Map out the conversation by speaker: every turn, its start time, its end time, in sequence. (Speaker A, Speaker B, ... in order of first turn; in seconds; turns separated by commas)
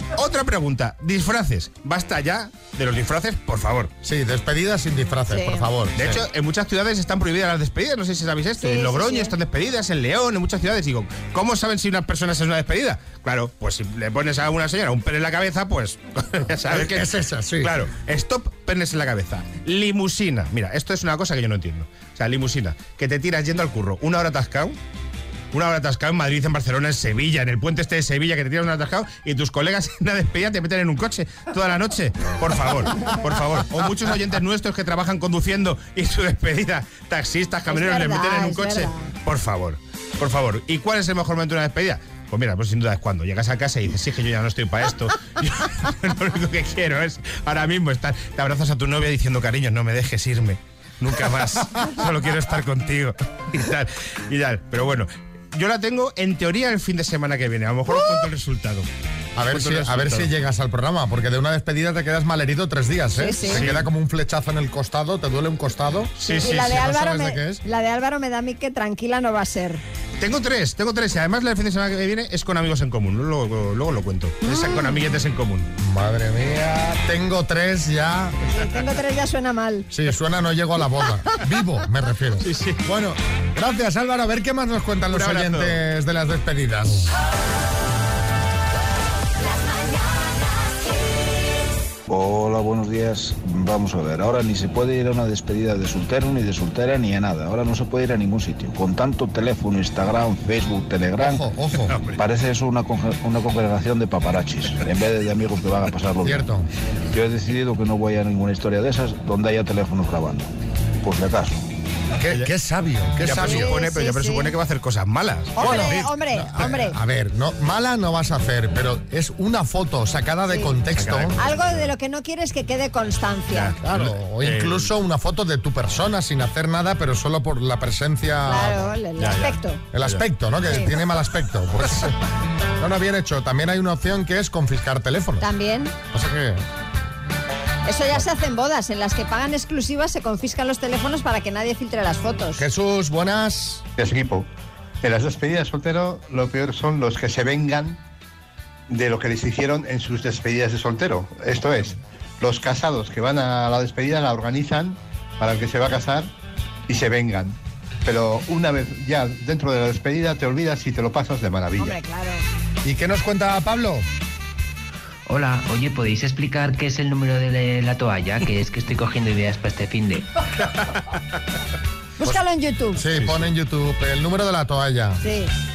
Speaker A: 0.1-3.9, Speaker B: 4.0-6.2, Speaker C: 5.3-5.7, Speaker A: 6.0-24.8, Speaker C: 8.6-9.3, Speaker B: 16.7-17.8, Speaker A: 25.5-58.9, Speaker C: 37.7-39.2, Speaker C: 57.9-58.3, Speaker B: 59.4-67.6, Speaker A: 59.5-60.3, Speaker C: 63.1-63.8, Speaker A: 63.4-63.8, Speaker A: 66.2-66.8, Speaker C: 66.3-69.8, Speaker A: 70.2-75.7, Speaker C: 74.4-75.0, Speaker B: 75.8-78.4, Speaker C: 78.5-79.9, Speaker B: 79.9-87.1, Speaker A: 82.4-82.8, Speaker A: 85.1-85.8, Speaker D: 92.1-101.5, Speaker B: 101.2-101.9, Speaker A: 101.8-102.2, Speaker D: 102.2-106.5, Speaker B: 106.2-106.7, Speaker D: 107.1-110.5, Speaker D: 111.0-111.6, Speaker B: 112.2-113.8, Speaker A: 113.2-116.2, Speaker C: 113.3-114.5, Speaker C: 115.6-117.0, Speaker B: 115.8-121.4, Speaker C: 120.5-123.8, Speaker A: 121.0-121.9, Speaker A: 123.5-124.9, Speaker B: 123.8-128.9, Speaker C: 128.5-129.9, Speaker A: 129.2-130.2, Speaker B: 129.9-132.2, Speaker C: 130.7-130.9, Speaker B: 132.8-135.5, Speaker C: 135.4-135.9, Speaker B: 136.1-136.6, Speaker C: 137.9-142.6, Speaker B: 142.6-143.8, Speaker E: 144.0-144.5, Speaker E: 145.0-148.0, Speaker E: 148.9-156.3, Speaker E: 156.9-162.0, Speaker C: 161.8-162.4, Speaker B: 162.8-164.1, Speaker F: 165.3-170.3, Speaker A: 170.6-171.0, Speaker C: 172.2-173.1, Speaker B: 173.0-175.2, Speaker A: 173.1-173.5, Speaker C: 175.2-175.5